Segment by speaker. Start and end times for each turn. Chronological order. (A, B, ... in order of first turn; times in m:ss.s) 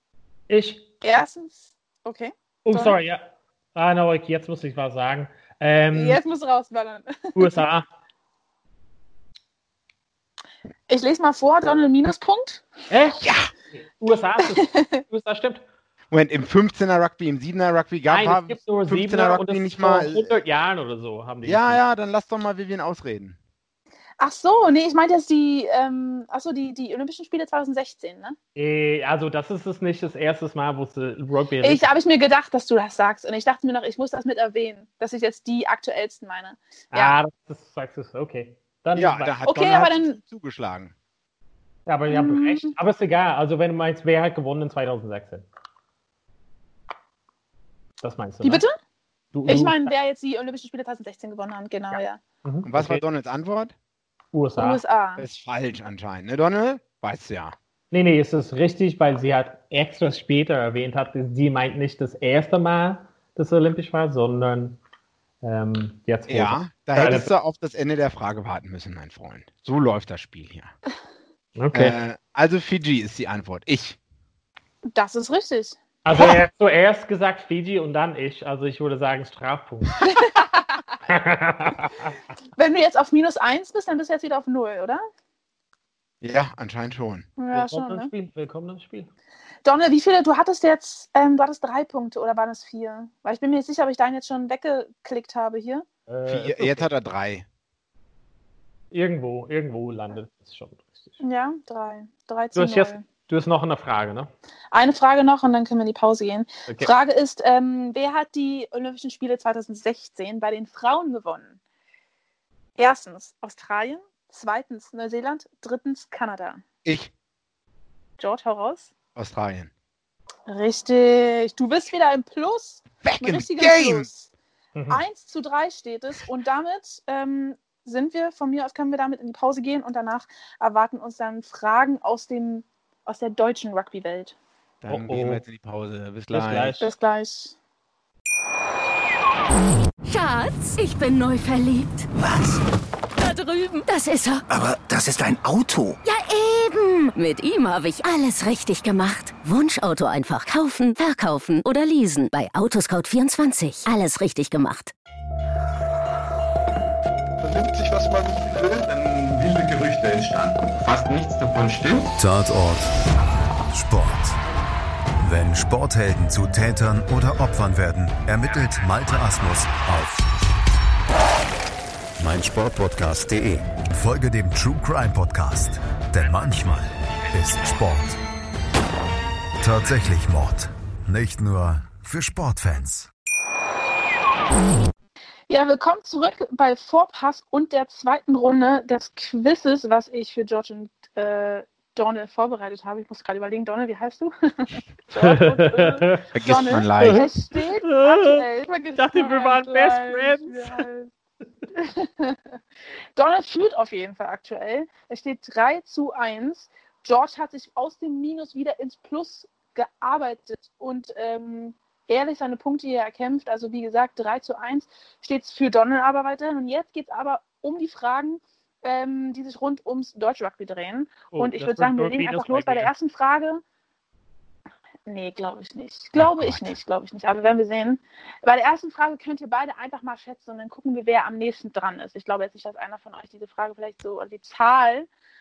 0:00.5-0:00.8 A
0:01.0-0:03.0 B
0:02.6-0:06.2 A
0:05.9-0:07.6 B
0:07.4-0:07.8 A
0:10.9-0:12.6 B
0:12.9-0:15.6 A
0:13.2-0:13.5 C
0:14.5-0:15.0 B
0:16.1-0:20.3 C
0:18.1-0:21.8 A
0:21.4-0:23.4 C
0:24.2-0:28.4 B
0:28.5-0:31.9 A
0:31.6-0:37.1 B
0:36.9-0:39.4 A
0:38.9-0:40.9 C
0:39.4-0:40.2 B
0:41.9-0:45.4 A
0:42.1-0:42.7 B
0:48.0-0:48.6 A
0:48.4-0:48.7 B
0:49.3-0:49.9 A
0:49.4-0:52.2 B
0:52.4-0:53.0 A
0:52.6-0:53.7 C
0:54.3-0:54.8 A
0:54.6-0:55.2 B
0:55.2-0:57.6 C
0:57.9-1:04.8 A
1:05.4-1:07.3 A
1:06.3-1:10.7 C
1:11.6-1:12.0 A
1:11.7-1:14.0 C
1:14.9-1:15.8 B
1:16.0-1:20.1 A
1:20.0-1:20.8 B
1:21.1-1:22.2 A
1:22.6-1:25.0 B
1:26.2-1:27.3 C
1:27.4-1:28.1 B
1:27.5-1:29.1 A
1:29.6-1:35.8 B
1:36.1-1:36.9 A
1:36.2-1:37.4 C
1:38.9-1:41.2 A
1:41.2-1:43.0 B
1:42.5-1:44.3 A
1:44.7-1:51.6 B
1:52.8-1:56.6 B
1:56.8-1:57.1 C
1:58.2-1:58.9 B
1:59.2-1:59.7 C
2:00.5-2:04.3 B
2:03.0-2:04.1 C
2:04.7-2:05.0 A
2:04.9-2:14.4 B
2:14.8-2:16.8 C
2:14.9-2:15.4 A
2:16.3-2:16.9 A
2:16.8-2:17.5 B
2:20.0-2:22.1 D
2:22.1-2:22.6 E
2:23.2-2:24.4 D
2:24.5-2:26.0 E
2:26.0-2:34.9 D
2:37.4-2:42.1 F
2:42.2-2:42.9 G
2:43.7-2:44.4 G
2:45.2-2:50.4 G
2:52.2-2:58.2 G
2:59.6-3:03.1 G
3:05.5-3:21.1 B
3:15.2-3:16.2 A
3:16.3-3:17.2 C
3:17.0-3:20.8 A
3:21.7-3:22.5 B
3:23.1-3:43.6 B
3:41.3-3:42.9 A
3:45.0-3:55.1 B
3:46.2-3:46.8 C